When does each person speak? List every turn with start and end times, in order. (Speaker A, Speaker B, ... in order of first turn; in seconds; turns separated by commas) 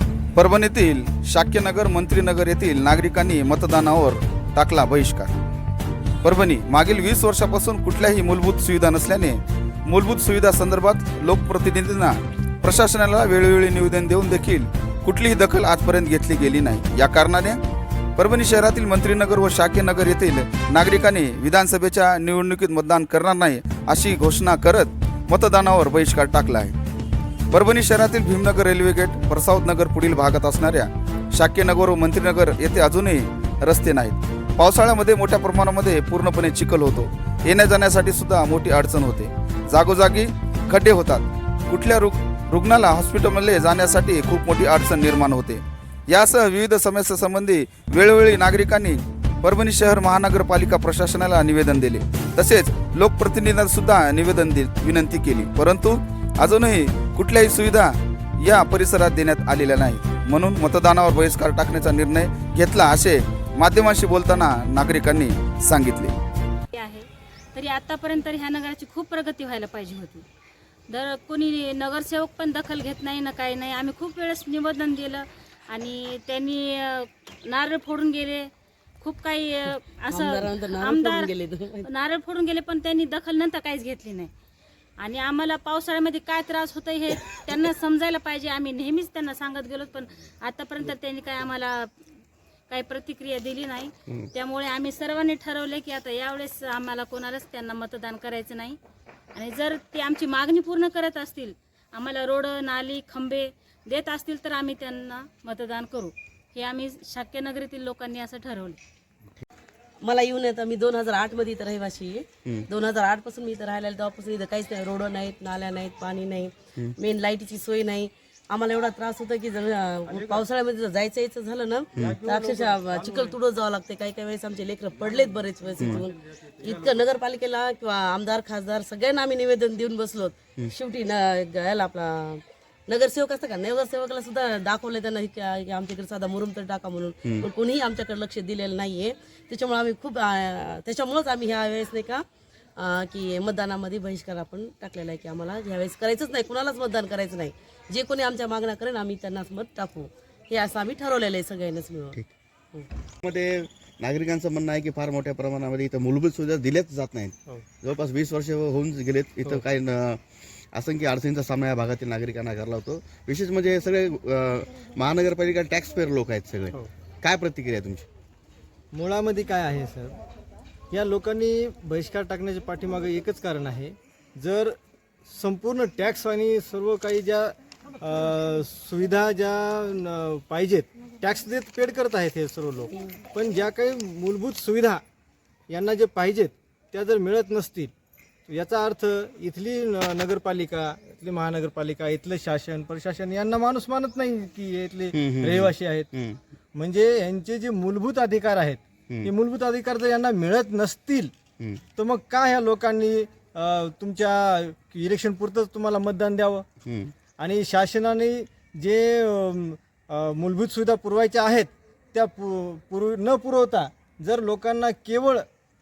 Speaker A: 0.3-5.3, Speaker A: 6.2-17.6, Speaker A: 18.2-26.7, Speaker A: 27.5-66.1, Speaker B: 66.7-70.2, Speaker B: 70.9-78.5, Speaker B: 79.0-81.3, Speaker C: 80.1-81.9, Speaker B: 81.8-84.3, Speaker B: 85.0-91.9, Speaker B: 92.7-98.8, Speaker B: 99.3-108.8, Speaker C: 110.0-142.2, Speaker D: 122.0-123.3, Speaker E: 125.8-126.0, Speaker C: 142.8-152.2, Speaker E: 153.2-168.1, Speaker D: 168.9-170.2, Speaker D: 170.9-185.0, Speaker D: 185.7-187.9, Speaker D: 188.5-196.1, Speaker E: 195.1-196.4, Speaker D: 196.7-201.3, Speaker D: 201.9-206.7, Speaker E: 206.8-207.1, Speaker D: 207.4-215.5